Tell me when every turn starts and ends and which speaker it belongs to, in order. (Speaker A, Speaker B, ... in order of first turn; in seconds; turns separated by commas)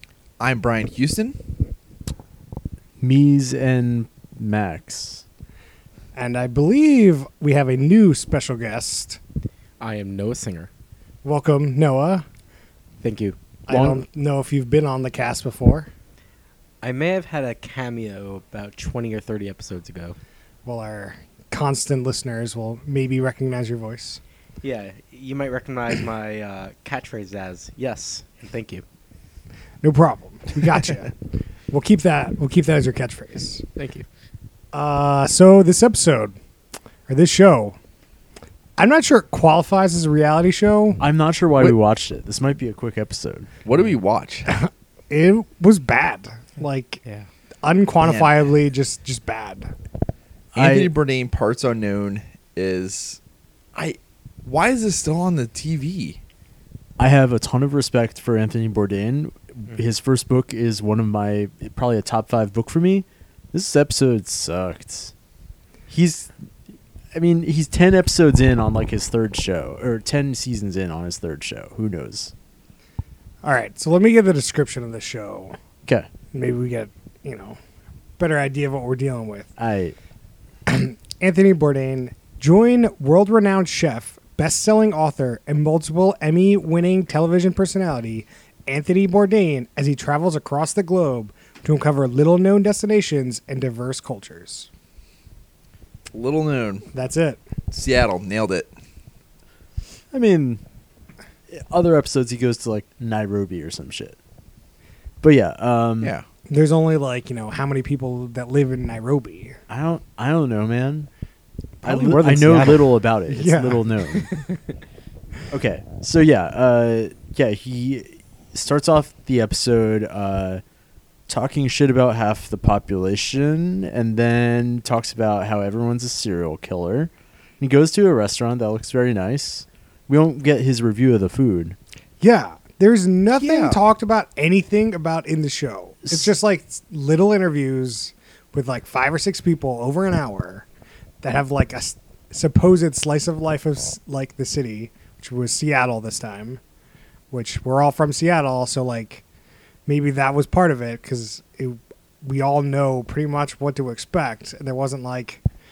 Speaker A: 0.4-1.4, Speaker B: 3.0-5.2, Speaker C: 6.2-9.2, Speaker D: 9.8-10.7, Speaker C: 11.2-12.2, Speaker D: 13.0-13.4, Speaker C: 13.7-15.9, Speaker B: 13.7-14.0, Speaker D: 16.8-20.2, Speaker C: 20.6-24.2, Speaker D: 24.6-28.8, Speaker C: 29.8-31.1, Speaker C: 31.7-33.6, Speaker D: 33.8-34.1, Speaker C: 34.7-36.4, Speaker C: 37.1-37.8, Speaker C: 38.8-41.0, Speaker B: 41.0-43.5, Speaker A: 43.6-44.5, Speaker C: 44.5-47.0, Speaker C: 47.6-49.7, Speaker B: 50.5-50.9, Speaker A: 50.6-53.2, Speaker A: 53.8-56.2, Speaker B: 57.0-65.1, Speaker B: 65.9-66.3, Speaker B: 67.1-72.3, Speaker C: 73.4-75.5, Speaker C: 76.3-77.6, Speaker C: 78.2-79.5, Speaker B: 79.6-80.0, Speaker C: 80.7-94.7, Speaker A: 96.1-96.9, Speaker C: 96.9-97.4, Speaker A: 97.7-98.7, Speaker B: 100.1-100.6, Speaker B: 101.5-104.2, Speaker B: 105.2-106.1, Speaker A: 106.0-106.3, Speaker C: 106.5-109.6, Speaker B: 109.7-111.1, Speaker B: 111.8-114.3, Speaker D: 111.8-112.9, Speaker C: 113.3-113.9, Speaker D: 114.3-114.6, Speaker B: 115.5-120.6, Speaker B: 121.3-131.8, Speaker C: 132.2-140.7, Speaker A: 133.3-133.8, Speaker C: 141.2-146.6, Speaker C: 147.3-149.2, Speaker C: 149.9-155.4